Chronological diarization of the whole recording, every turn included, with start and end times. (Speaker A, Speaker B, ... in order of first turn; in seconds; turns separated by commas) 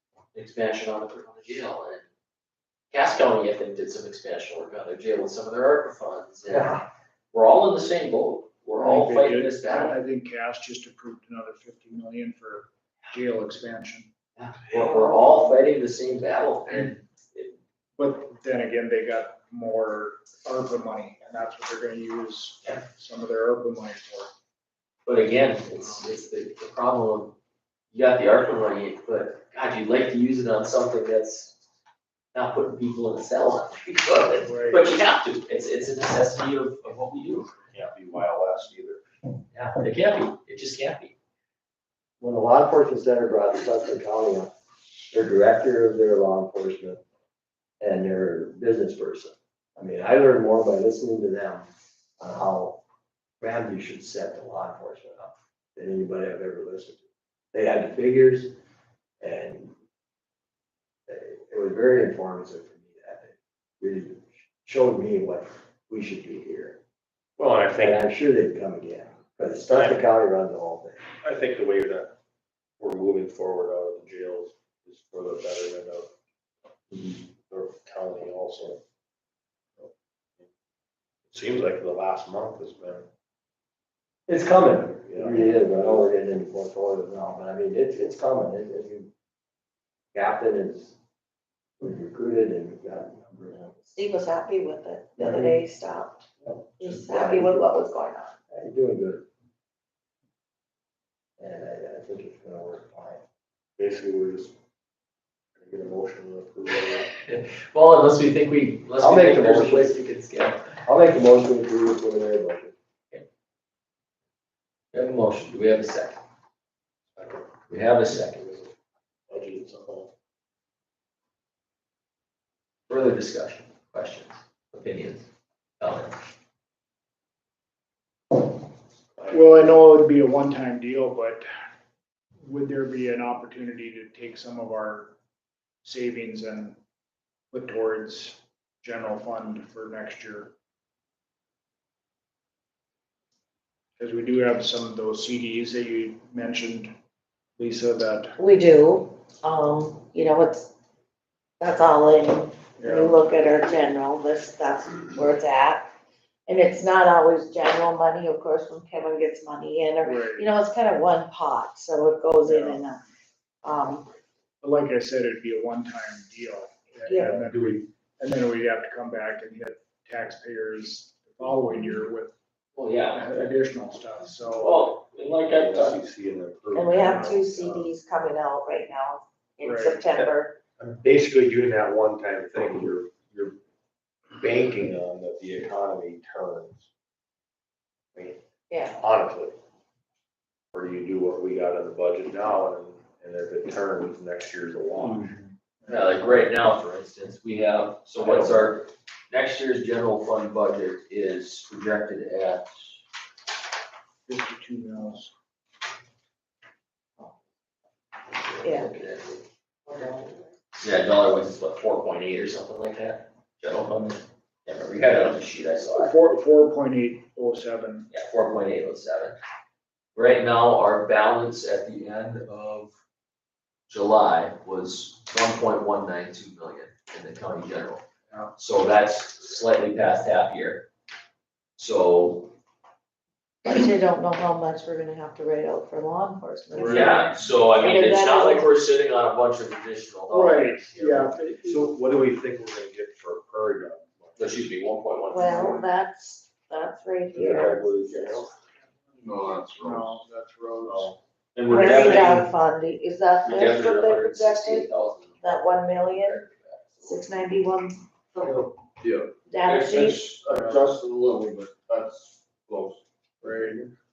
Speaker A: 0.3-2.1, Speaker A: 2.9-10.0, Speaker B: 6.5-6.8, Speaker C: 8.8-14.1, Speaker A: 14.4-17.5, Speaker C: 14.9-15.3, Speaker C: 18.0-24.3, Speaker A: 25.1-27.3, Speaker C: 25.8-26.1, Speaker A: 27.9-31.6, Speaker A: 32.3-37.5, Speaker C: 34.4-34.9, Speaker D: 37.7-39.0, Speaker A: 39.5-41.1, Speaker B: 42.2-44.5, Speaker B: 45.1-47.0, Speaker B: 47.8-51.7, Speaker B: 52.2-52.8, Speaker B: 53.4-58.5, Speaker B: 59.2-59.7, Speaker B: 61.1-66.8, Speaker D: 67.4-68.0, Speaker B: 67.8-71.0, Speaker D: 69.7-70.0, Speaker D: 71.2-72.1, Speaker D: 72.8-76.1, Speaker D: 76.9-78.8, Speaker D: 79.8-80.5, Speaker D: 81.3-83.1, Speaker B: 84.3-89.1, Speaker D: 85.1-86.0, Speaker B: 90.1-91.0, Speaker B: 91.8-93.7, Speaker E: 93.8-96.2, Speaker B: 95.2-95.6, Speaker B: 96.4-97.7, Speaker E: 96.8-98.3, Speaker B: 98.5-99.2, Speaker B: 101.4-103.2, Speaker D: 103.8-104.5, Speaker D: 105.6-107.0, Speaker A: 107.0-110.8, Speaker B: 109.0-110.0, Speaker B: 110.8-112.7, Speaker A: 114.9-116.2, Speaker D: 117.2-117.5, Speaker A: 117.7-118.5, Speaker D: 119.3-120.1, Speaker A: 122.9-125.3, Speaker A: 125.8-126.1, Speaker D: 129.2-129.6, Speaker C: 129.3-131.5, Speaker C: 132.4-135.1, Speaker C: 135.8-136.8, Speaker C: 137.5-140.5, Speaker C: 144.0-146.9, Speaker C: 147.6-148.3, Speaker E: 148.4-150.7, Speaker E: 151.6-155.9, Speaker C: 152.8-153.2, Speaker E: 156.5-163.0, Speaker C: 160.1-160.5, Speaker C: 162.4-162.8, Speaker E: 163.6-164.1, Speaker C: 164.6-172.3, Speaker E: 167.1-167.4, Speaker D: 167.2-167.8, Speaker A: 172.8-173.5, Speaker C: 173.1-174.8, Speaker A: 174.6-176.0, Speaker D: 175.5-177.9, Speaker E: 176.7-180.6, Speaker C: 177.1-177.4, Speaker C: 179.6-180.1, Speaker D: 180.1-183.6, Speaker D: 184.4-186.9, Speaker E: 188.7-189.0, Speaker D: 189.0-189.6, Speaker D: 190.7-195.4, Speaker C: 195.1-195.4, Speaker A: 195.9-202.7, Speaker C: 204.3-205.3, Speaker A: 208.3-209.4, Speaker E: 208.6-208.9, Speaker E: 209.9-210.5, Speaker A: 210.8-216.2, Speaker C: 215.9-218.1, Speaker A: 218.1-219.4, Speaker A: 220.2-222.9, Speaker A: 223.9-228.1, Speaker A: 228.6-230.9, Speaker A: 231.8-232.5, Speaker E: 233.7-238.7, Speaker C: 236.7-237.3, Speaker A: 236.8-241.6, Speaker C: 240.3-241.6, Speaker D: 241.6-244.8, Speaker A: 244.4-245.8, Speaker E: 245.3-248.4, Speaker D: 247.3-248.5, Speaker F: 249.2-250.2, Speaker C: 249.8-251.1, Speaker A: 251.6-252.5, Speaker E: 251.7-254.9, Speaker A: 253.4-257.2, Speaker E: 255.4-256.4, Speaker E: 257.0-258.7, Speaker F: 259.0-259.3, Speaker E: 259.5-260.4, Speaker F: 260.0-263.9, Speaker C: 260.5-260.8